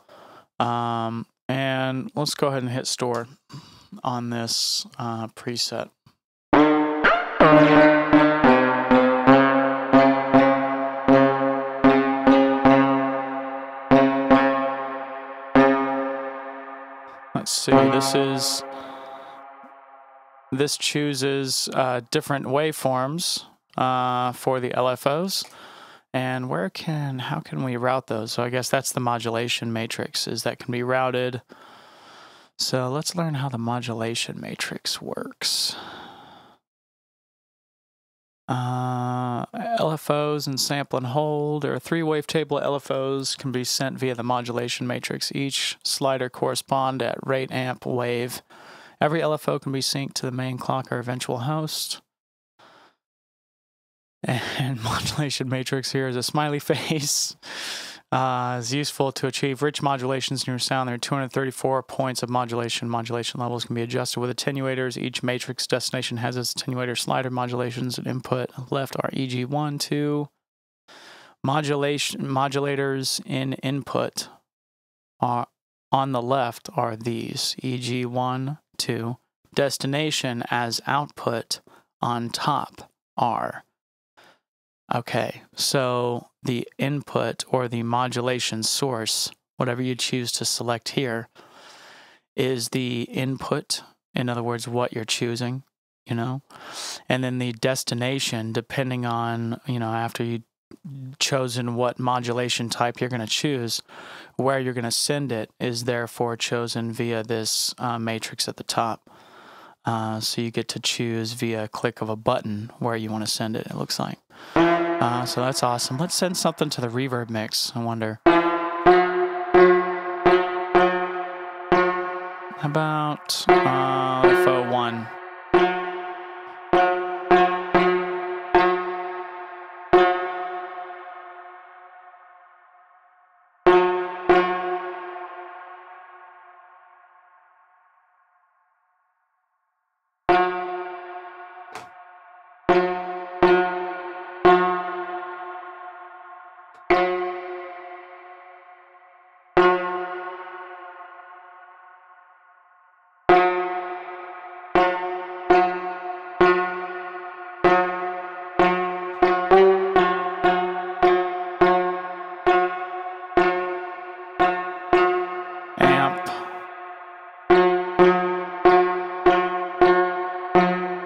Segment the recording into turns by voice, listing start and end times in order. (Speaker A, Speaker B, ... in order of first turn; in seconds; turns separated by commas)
Speaker A: 0.6-5.9, Speaker A: 17.3-18.6, Speaker A: 20.5-25.5, Speaker A: 26.1-31.4, Speaker A: 32.6-35.8, Speaker A: 38.5-48.4, Speaker A: 49.0-52.0, Speaker A: 54.2-70.3, Speaker A: 71.4-74.3, Speaker A: 75.2-83.6, Speaker A: 84.9-91.3, Speaker A: 92.3-103.8, Speaker A: 104.4-109.1, Speaker A: 109.8-114.2, Speaker A: 115.0-118.2, Speaker A: 122.6-125.1, Speaker A: 165.8-166.5